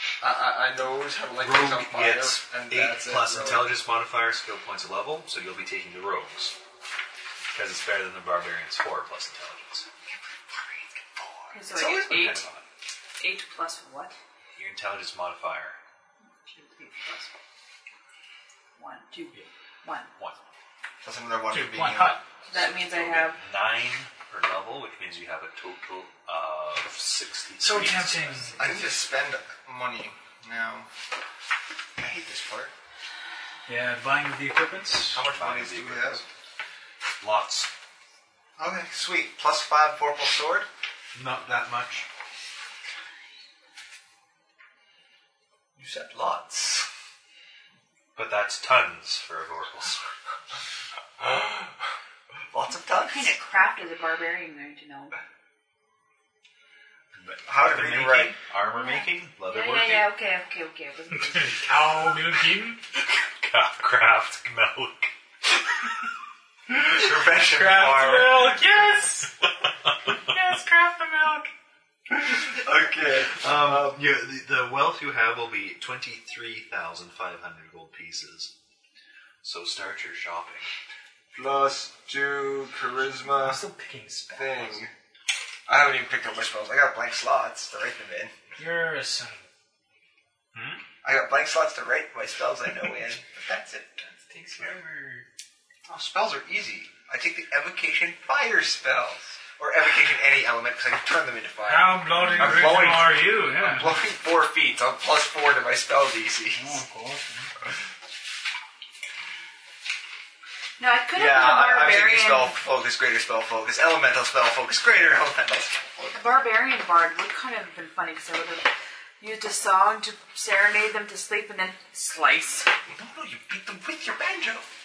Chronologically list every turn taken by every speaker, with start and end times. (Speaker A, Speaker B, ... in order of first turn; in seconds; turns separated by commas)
Speaker A: 0.2-3.7, Speaker B: 1.4-6.5, Speaker B: 7.5-9.9, Speaker C: 11.5-12.4, Speaker B: 11.7-12.6, Speaker C: 13.2-14.2, Speaker B: 14.6-15.8, Speaker C: 16.4-17.3, Speaker C: 18.8-20.1, Speaker A: 21.0-22.2, Speaker D: 21.5-22.2, Speaker C: 22.5-23.4, Speaker B: 22.5-28.6, Speaker D: 27.6-28.6, Speaker A: 28.6-30.9, Speaker A: 32.0-32.7, Speaker D: 33.7-35.2, Speaker B: 35.1-36.2, Speaker A: 35.1-36.2, Speaker B: 37.2-37.7, Speaker A: 38.6-40.7, Speaker B: 41.1-42.1, Speaker A: 45.8-46.9, Speaker B: 48.1-50.0, Speaker A: 52.5-53.4, Speaker C: 53.0-55.2, Speaker B: 57.2-60.1, Speaker A: 57.5-58.4, Speaker C: 58.6-61.7, Speaker D: 61.1-62.8, Speaker B: 63.0-65.1, Speaker A: 66.7-68.6, Speaker D: 67.0-69.4, Speaker D: 70.1-71.5, Speaker A: 72.1-74.0, Speaker B: 73.3-78.5, Speaker B: 79.4-80.7, Speaker A: 81.3-83.6, Speaker D: 83.2-84.9, Speaker A: 84.3-84.9, Speaker A: 85.7-88.3, Speaker D: 88.6-89.5, Speaker B: 90.5-90.8, Speaker A: 91.0-94.8, Speaker D: 94.4-95.3, Speaker A: 95.9-106.8, Speaker D: 101.7-104.0, Speaker C: 102.2-102.7, Speaker D: 106.5-107.5, Speaker C: 110.8-112.6, Speaker A: 111.1-116.2, Speaker C: 116.1-122.7, Speaker A: 122.9-124.7